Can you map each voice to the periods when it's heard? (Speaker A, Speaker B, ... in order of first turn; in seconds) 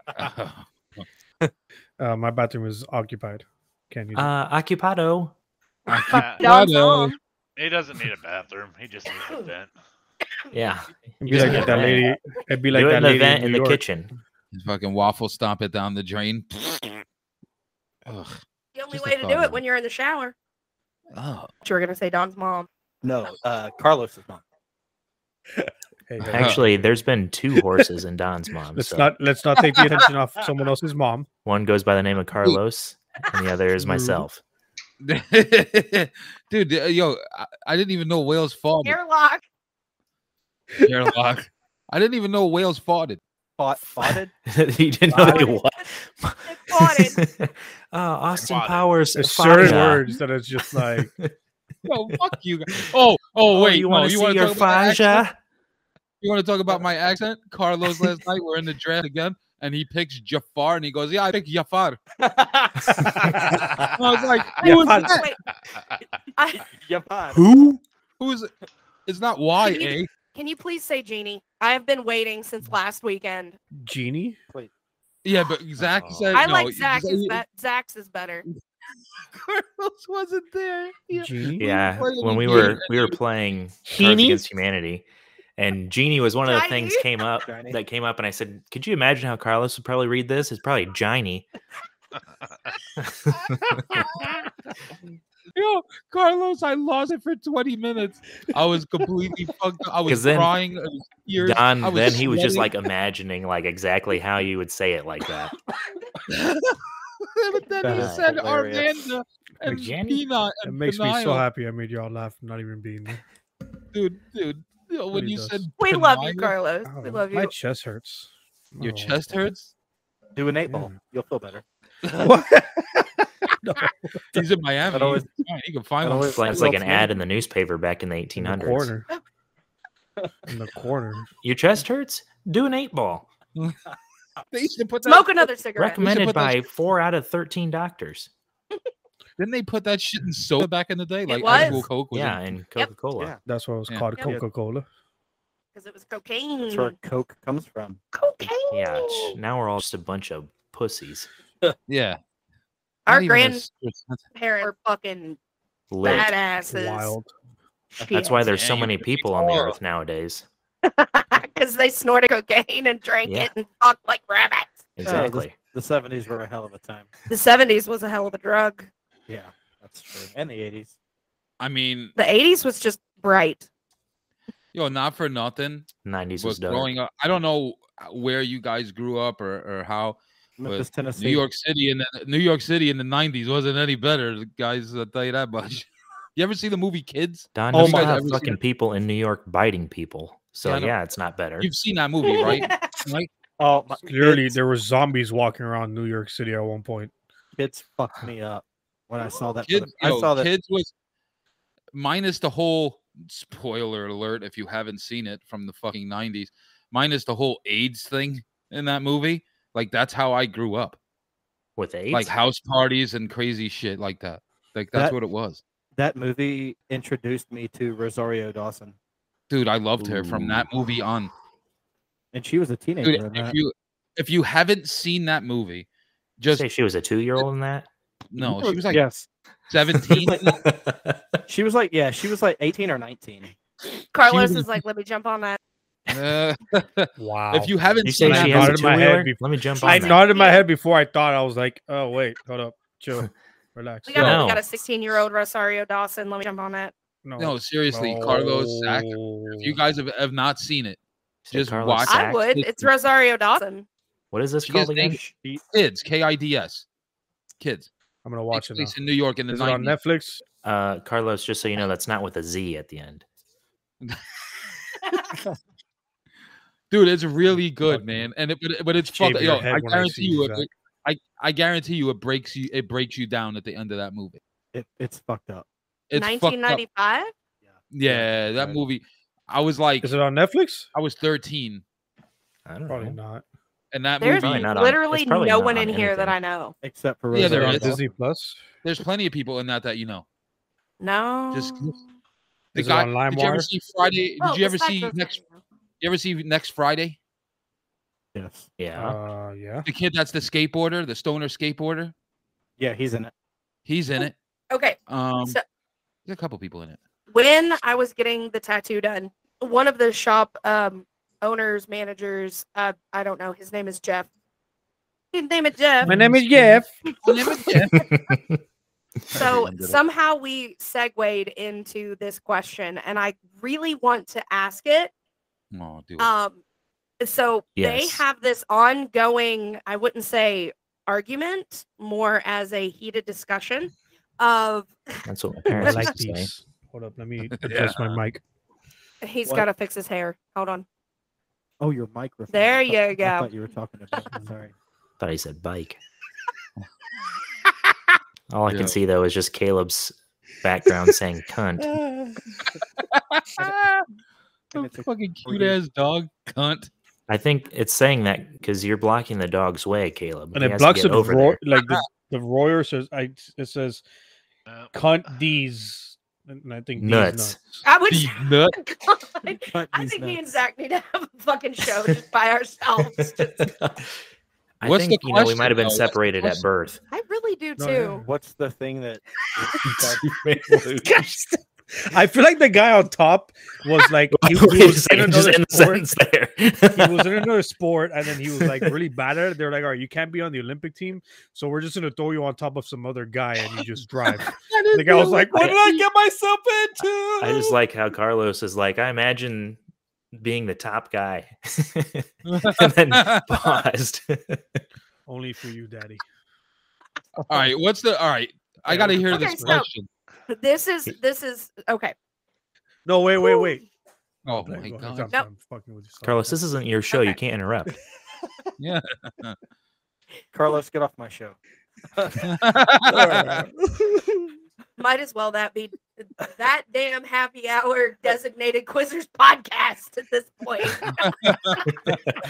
Speaker A: 0.1-1.1, 5.9-7.2, 11.3-12.0, 14.5-17.0, 18.1-18.4, 18.9-19.6, 21.1-21.5, 26.3-26.6, 29.6-30.0, 35.0-39.0, 40.9-43.2, 51.9-55.3, 56.2-62.0, 64.0-65.3, 68.2-68.5, 69.1-70.1, 75.2-77.4, 79.2-83.2, 95.5-102.7, 106.3-111.5, 113.9-116.5, 118.8-119.7, 122.0-122.3, 124.3-126.8, 134.5-135.5, 136.0-136.6, 139.4-142.4, 151.9-152.2, 153.1-154.2, 158.4-159.8, 171.6-172.1, 174.7-188.6, 190.6-190.9, 191.6-193.3, 199.7-200.9, 201.9-211.0, 212.1-215.6, 219.5-221.3, 223.0-225.9, 226.4-226.7, 228.3-229.1, 229.7-230.6, 234.2-234.7, 236.1-238.9, 244.2-244.4, 247.4-251.0, 251.5-252.8, 254.7-255.2, 255.7-256.9, 257.6-257.9, 258.5-259.9, 266.9-274.4, 276.1-276.8, 277.9-280.1, 280.9-281.8, 283.9-284.7, 287.3-288.0, 288.8-290.2, 291.5-292.0, 292.7-295.4, 296.0-297.2, 299.9-302.1, 303.9-304.3, 305.1-305.6, 306.3-307.0, 316.0-318.3, 319.3-320.0, 325.7-326.3, 337.5-338.2, 348.7-349.0, 353.1-354.1, 354.7-356.9, 368.1-368.8, 374.8-376.6, 394.3-396.1, 402.5-403.8, 407.5-410.1, 414.4-415.3, 418.8-419.6, 422.4-423.6, 431.2-431.8
Speaker B: 2.0-4.3, 11.2-13.8, 26.1-26.6, 28.7-31.3, 33.8-34.3, 49.1-51.1, 63.0-63.7, 64.6-65.1, 67.3-67.8, 73.8-74.4, 81.1-81.7, 83.9-84.4, 110.6-113.2, 115.1-115.7, 116.8-119.3, 120.7-120.9, 122.2-124.5, 128.4-129.1, 130.5-131.3, 143.5-144.8, 156.7-157.3, 187.7-188.6, 194.0-197.1, 237.2-244.2, 247.2-249.8, 258.2-259.0, 259.5-260.4, 267.9-268.3, 269.0-270.7, 280.0-280.9, 282.9-283.4, 287.4-288.6, 292.8-293.7, 299.0-299.9, 316.1-316.9, 335.7-338.4, 351.8-352.4, 360.5-364.0, 364.9-367.8, 377.8-378.3, 380.8-386.1, 386.9-397.7, 405.3-406.2, 408.9-409.8, 413.1-413.8, 414.5-416.6, 423.1-424.5
Speaker C: 4.2-5.3, 10.5-12.1, 12.7-14.1, 26.3-29.1, 31.4-34.4, 44.0-50.1, 50.7-51.3, 53.5-55.4, 81.6-85.1, 85.6-91.5, 93.0-94.0, 100.1-100.5, 101.4-105.6, 107.9-108.3, 109.6-110.3, 126.3-128.9, 131.4-133.3, 135.8-138.3, 141.5-143.3, 148.7-151.3, 155.9-156.3, 158.1-160.5, 163.2-163.5, 165.0-165.5, 176.0-176.9, 187.6-191.7, 211.8-212.3, 220.1-220.6, 226.5-227.9, 229.9-231.4, 238.0-240.3, 244.2-244.7, 251.4-252.6, 254.3-255.3, 260.6-263.2, 282.7-283.2, 284.3-286.4, 298.8-299.2, 318.0-318.6, 327.8-328.2, 335.3-336.5, 345.2-346.0, 348.5-352.0, 357.3-361.6, 367.0-367.6, 373.2-374.2, 374.8-377.0, 379.8-381.5, 384.3-387.5, 388.6-388.9, 397.4-399.8, 400.3-404.8, 416.2-418.0
Speaker D: 5.9-7.2, 18.8-20.4, 21.6-22.7, 38.8-39.4, 45.1-45.7, 46.5-47.2, 64.7-65.4, 66.4-66.7, 69.6-73.6, 76.3-78.5, 86.4-87.1, 115.8-117.5, 135.1-136.0, 141.3-141.8, 145.8-146.9, 148.1-149.4, 153.1-153.6, 154.3-155.4, 156.0-157.1, 158.0-158.4, 160.8-165.0, 167.3-168.9, 172.2-173.7, 192.2-193.0, 234.1-235.6, 239.8-240.7, 244.1-246.9, 252.1-253.9, 276.1-277.3, 284.2-286.8, 291.0-292.0, 294.4-295.6, 304.7-305.6, 307.3-314.3, 315.3-316.1, 317.3-317.6, 319.3-325.1, 326.2-326.6, 327.2-335.2, 335.8-336.0, 339.2-340.9, 342.5-343.5, 367.9-373.7, 377.1-378.2, 409.2-409.9, 410.5-412.1, 413.4-413.8, 425.0-431.1
Speaker E: 6.1-6.5, 7.6-9.8, 48.4-49.0
Speaker F: 23.0-24.4, 43.6-44.3, 62.2-62.9, 66.7-67.4, 87.5-87.8, 107.8-108.9, 120.4-121.6, 124.9-125.3, 126.0-127.0, 146.7-148.0, 165.0-167.1, 169.3-170.9, 180.6-181.4, 193.6-194.6, 197.6-200.5, 216.0-218.9, 222.3-223.6, 228.9-229.3, 231.5-233.5, 255.4-255.6, 274.7-275.7, 277.7-278.8, 286.8-288.0, 298.4-298.7, 302.8-303.3, 341.8-344.7, 354.7-355.8, 369.7-370.4, 378.2-380.2, 420.5-421.6, 422.1-422.4